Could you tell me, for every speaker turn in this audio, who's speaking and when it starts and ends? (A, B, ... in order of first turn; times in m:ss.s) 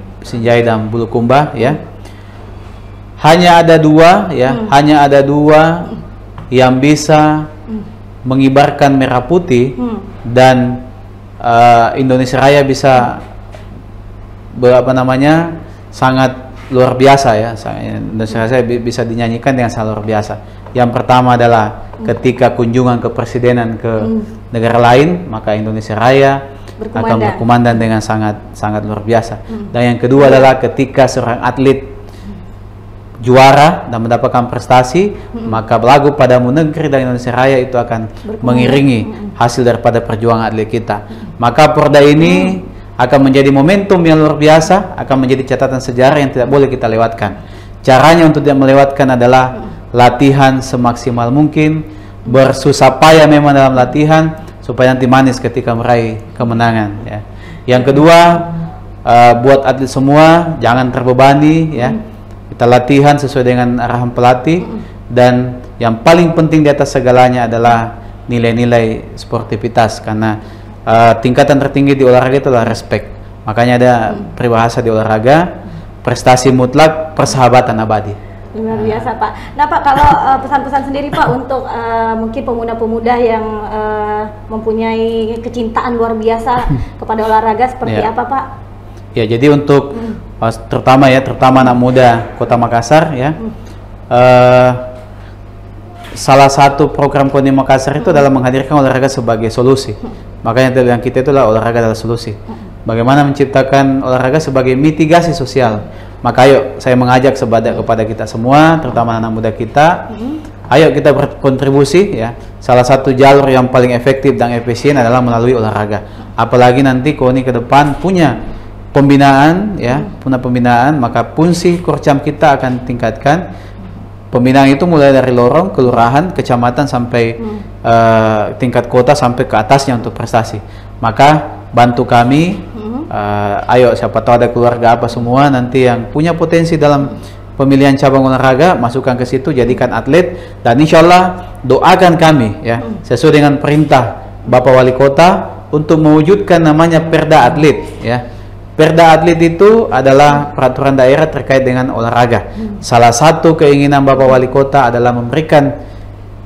0:00.2-0:01.8 A
0:03.2-0:05.9 A
0:06.5-0:07.5 A
0:08.2-0:10.8 A
0:09.8-0:10.1 B
0:11.4-0:13.2 A
0:14.5-0:26.4 A
0:24.0-0:24.3 B
0:26.8-0:27.5 B
0:27.0-0:32.0 A
0:29.5-0:30.5 B
0:33.2-0:58.5 A
0:38.2-0:39.3 B
0:42.2-0:42.6 B
0:59.0-1:02.0 A
1:02.5-1:15.4 A
1:16.0-1:18.2 A
1:18.5-1:28.4 B
1:18.7-1:19.0 A
1:29.1-1:33.4 A
1:34.1-1:34.9 A
1:36.1-1:50.0 A
1:50.1-1:50.4 B
1:50.7-1:58.4 A
1:58.9-2:03.4 A
2:04.3-2:28.2 A
2:12.8-2:13.1 B
2:28.8-2:35.7 A